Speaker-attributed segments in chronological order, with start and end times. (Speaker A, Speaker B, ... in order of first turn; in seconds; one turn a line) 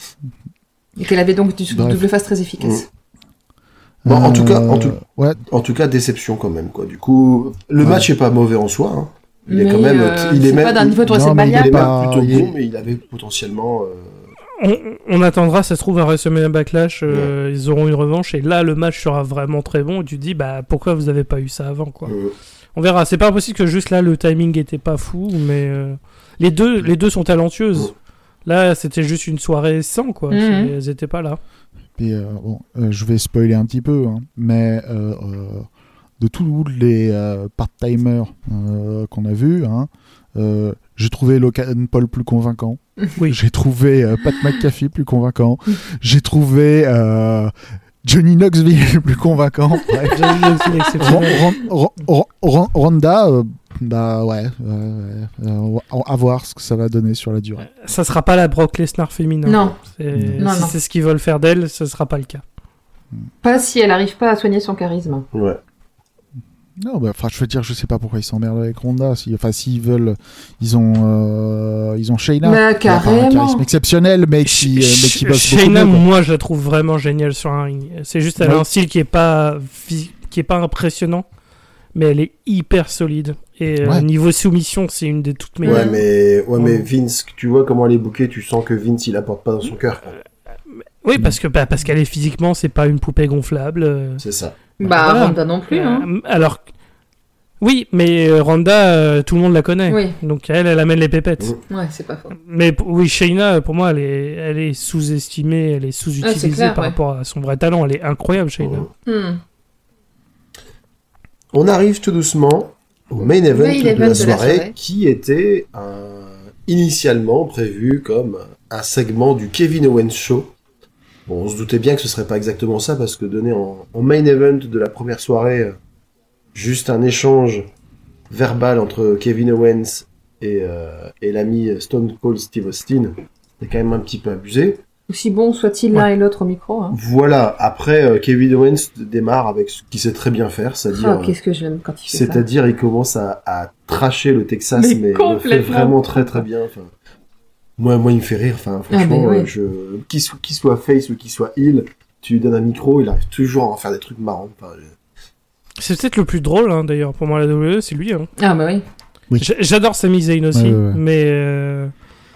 Speaker A: 1.0-2.9
Speaker B: 1.7-2.0
Speaker B: 4.0-5.4
Speaker C: 4.0-5.0
Speaker C: 5.5-14.3
Speaker B: 7.8-8.1
Speaker A: 9.5-11.9
Speaker B: 11.1-12.5
Speaker D: 14.6-22.1
Speaker C: 22.1-22.3
Speaker D: 22.7-27.9
Speaker D: 28.4-31.4
Speaker A: 30.3-30.7
Speaker B: 32.0-35.7
Speaker B: 36.2-57.7
Speaker D: 50.1-51.4
Speaker D: 57.7-62.4
Speaker A: 59.5-59.8
Speaker B: 60.1-60.4
Speaker A: 60.4-60.7
Speaker A: 63.4-65.3
Speaker C: 65.3-65.6
Speaker B: 66.8-76.0
Speaker A: 72.4-73.6
Speaker D: 74.4-81.2
Speaker B: 78.4-78.7
Speaker D: 81.9-85.9
Speaker A: 85.6-86.0
Speaker C: 85.6-90.2
Speaker D: 86.6-86.9
Speaker D: 91.0-94.2
Speaker C: 94.2-94.6
Speaker A: 94.8-96.1
Speaker D: 94.8-96.6
Speaker D: 97.6-101.5
Speaker A: 99.9-100.2
Speaker A: 101.7-102.3
Speaker D: 102.4-108.9
Speaker A: 106.2-107.0
Speaker C: 108.6-108.9
Speaker A: 109.0-109.4
Speaker C: 111.5-120.5
Speaker A: 113.5-114.7
Speaker C: 121.3-125.8
Speaker C: 126.5-127.7
Speaker C: 128.3-134.8
Speaker A: 135.1-137.0
Speaker C: 136.9-141.3
Speaker A: 140.9-142.4
Speaker C: 142.1-146.9
Speaker A: 144.8-146.4
Speaker C: 147.8-154.9
Speaker A: 148.9-149.5
Speaker D: 155.8-158.3
Speaker A: 158.4-158.8
Speaker D: 159.4-161.9
Speaker B: 160.5-161.0